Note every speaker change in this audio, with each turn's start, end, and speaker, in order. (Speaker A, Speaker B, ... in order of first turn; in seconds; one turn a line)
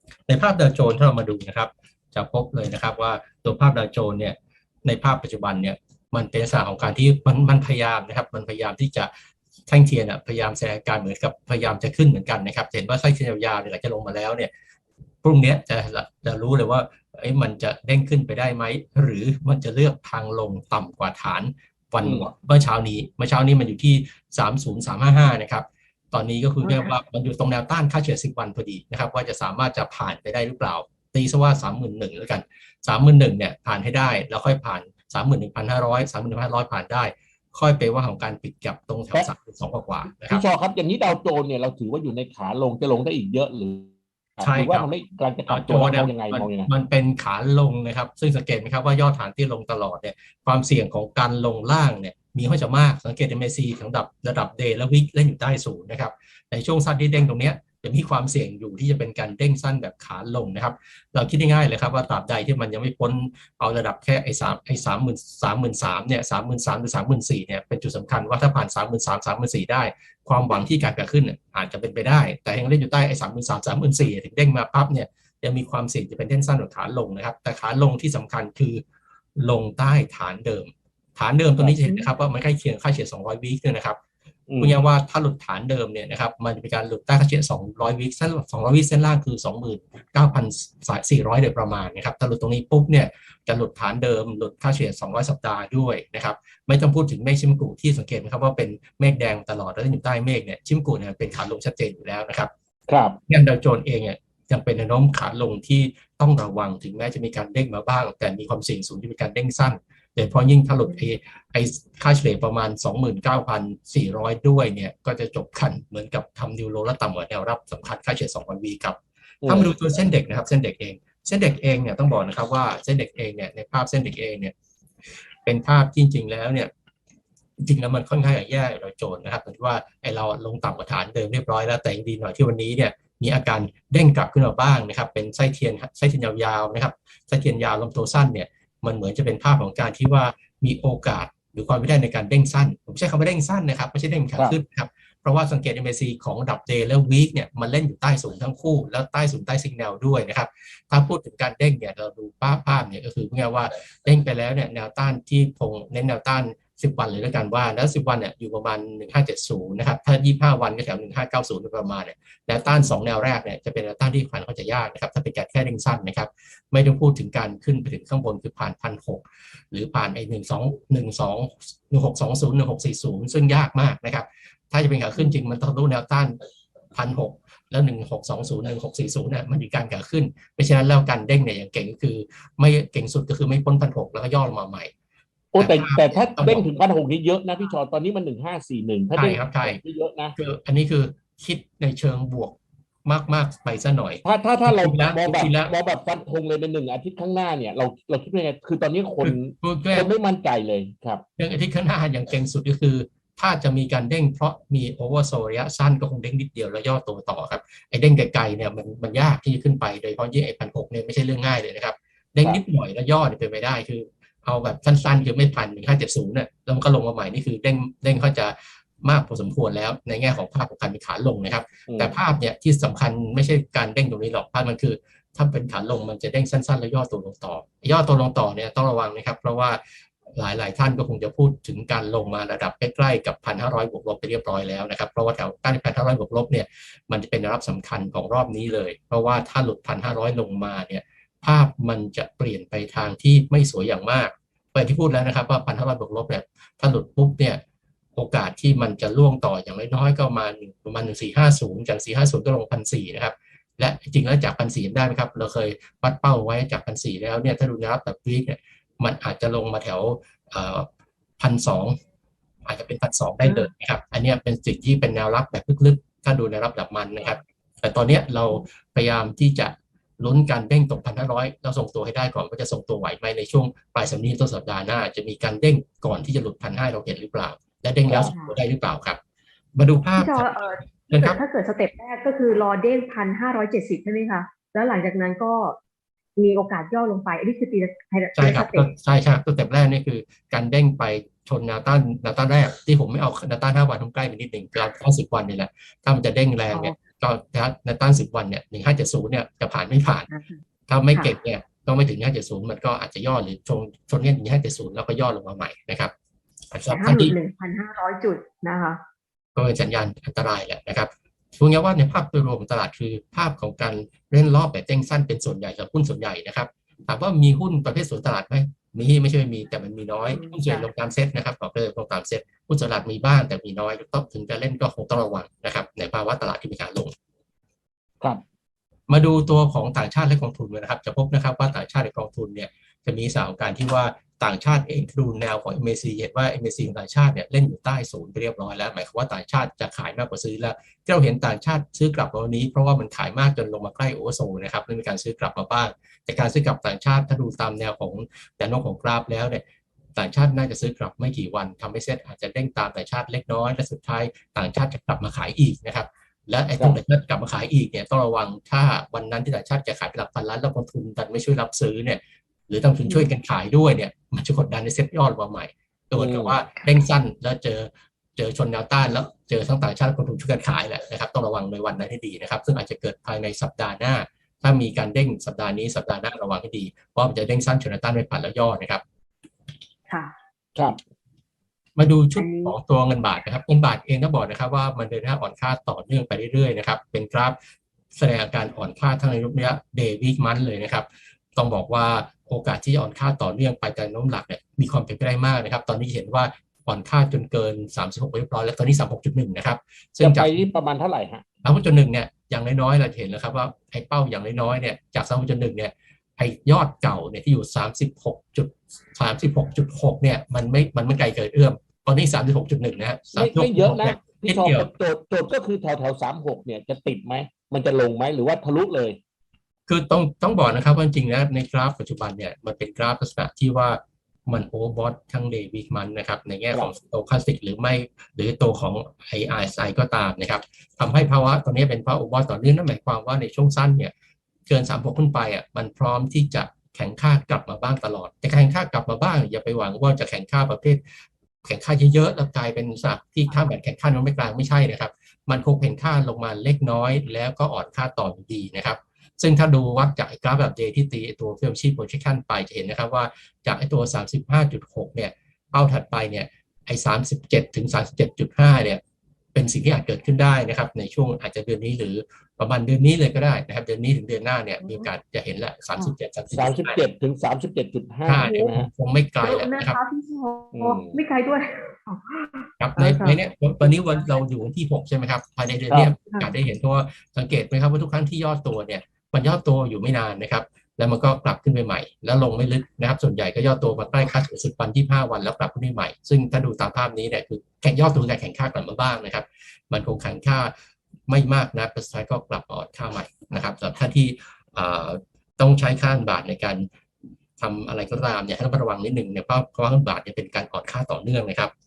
Speaker A: 0.3-9.1
Speaker A: 9.7-14.5
Speaker A: 15.2-40.4
Speaker B: 22.0-22.3
Speaker C: 26.6-26.9
Speaker B: 40.3-46.7
Speaker A: 44.4-44.9
Speaker A: 45.5-78.8
Speaker A: 79.4-84.0
Speaker B: 84.5-84.8
Speaker A: 84.6-102.5
Speaker B: 102.9-103.2
Speaker A: 103.3-124.5
Speaker B: 119.4-119.7
Speaker A: 125.4-126.7
Speaker A: 127.6-176.4
Speaker A: 176.9-184.9
Speaker B: 185.5-190.4
Speaker A: 185.6-186.7
Speaker A: 189.1-189.8
Speaker A: 190.4-195.8
Speaker B: 194.2-201.2
Speaker A: 199.2-200.1
Speaker A: 201.4-229.8
Speaker B: 221.9-222.2
Speaker A: 230.3-247.6
Speaker A: 248.2-260.9
Speaker A: 261.4-262.0
Speaker A: 262.7-279.2
Speaker C: 263.4-263.7
Speaker B: 278.1-278.3
Speaker C: 278.3-278.6
Speaker A: 279.8-281.4
Speaker C: 280.2-285.8
Speaker C: 286.4-288.9
Speaker A: 288.4-300.3
Speaker C: 300.3-300.6
Speaker A: 300.9-306.1
Speaker A: 306.7-307.4
Speaker C: 306.9-309.0
Speaker A: 309.6-327.1
Speaker C: 320.2-320.9
Speaker A: 329.1-349.6
Speaker A: 350.1-379.0
Speaker B: 366.2-366.6
Speaker A: 382.0-387.6
Speaker C: 382.4-382.8
Speaker A: 388.1-400.6
Speaker B: 400.2-401.4
Speaker A: 401.6-414.9
Speaker B: 413.4-419.2
Speaker A: 419.9-434.1
Speaker A: 434.7-441.0
Speaker A: 441.6-459.0
Speaker A: 459.5-467.0
Speaker C: 464.8-465.1
Speaker B: 466.5-468.9
Speaker A: 468.3-470.0
Speaker C: 468.4-468.7
Speaker C: 469.4-474.2
Speaker B: 470.7-471.2
Speaker A: 472.8-490.7
Speaker B: 475.9-476.1
Speaker C: 476.3-476.5
Speaker A: 491.3-496.9
Speaker A: 497.6-501.7